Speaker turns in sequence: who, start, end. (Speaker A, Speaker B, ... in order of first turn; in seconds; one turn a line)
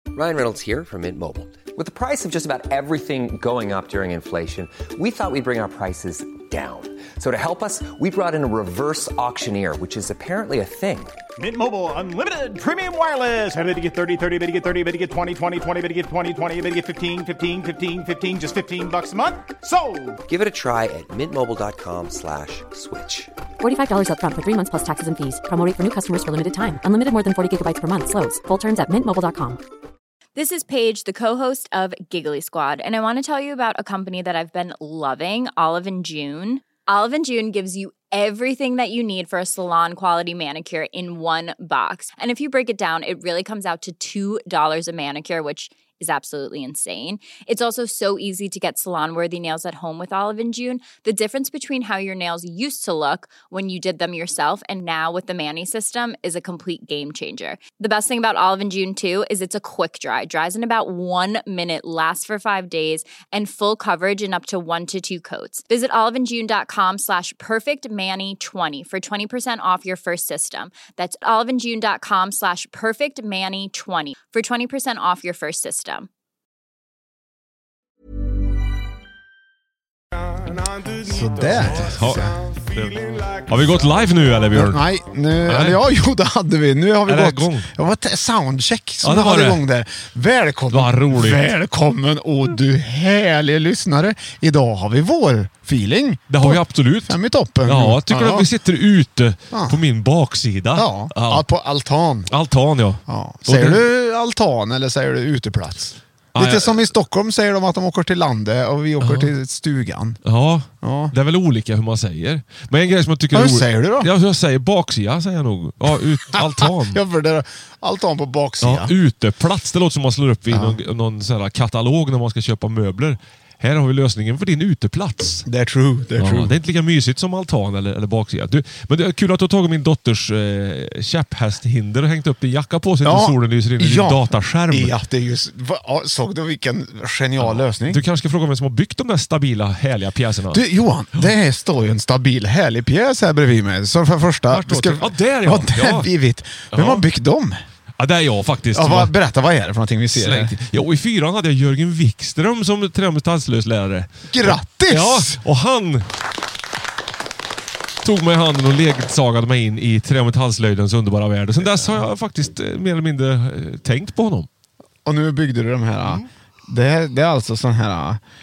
Speaker A: 0.1-11.2
Speaker B: 11.4-20.2
Speaker A: 20.3-23.3
Speaker C: 23.6-29.6
Speaker D: 30.4-76.1
Speaker E: 81.0-82.4
Speaker F: 81.5-84.8
Speaker E: 84.5-98.5
Speaker F: 85.5-85.9
Speaker F: 87.1-87.7
Speaker F: 89.0-89.6
Speaker F: 90.7-91.5
Speaker F: 96.3-101.5
Speaker E: 99.5-99.8
Speaker E: 100.8-102.3
Speaker F: 102.3-103.8
Speaker E: 103.1-110.2
Speaker F: 106.3-106.9
Speaker F: 109.0-109.3
Speaker F: 110.2-117.0
Speaker E: 110.8-111.1
Speaker E: 113.3-114.1
Speaker E: 116.3-118.9
Speaker F: 118.6-125.5
Speaker E: 120.5-120.8
Speaker E: 125.5-126.5
Speaker F: 126.2-134.9
Speaker E: 133.0-138.0
Speaker F: 137.4-140.6
Speaker E: 140.5-147.6
Speaker F: 144.5-146.1
Speaker F: 146.7-147.1
Speaker F: 148.0-149.1
Speaker E: 148.7-150.6
Speaker F: 150.2-156.1
Speaker E: 154.3-155.4
Speaker F: 158.0-164.5
Speaker E: 161.6-162.0
Speaker E: 165.1-168.2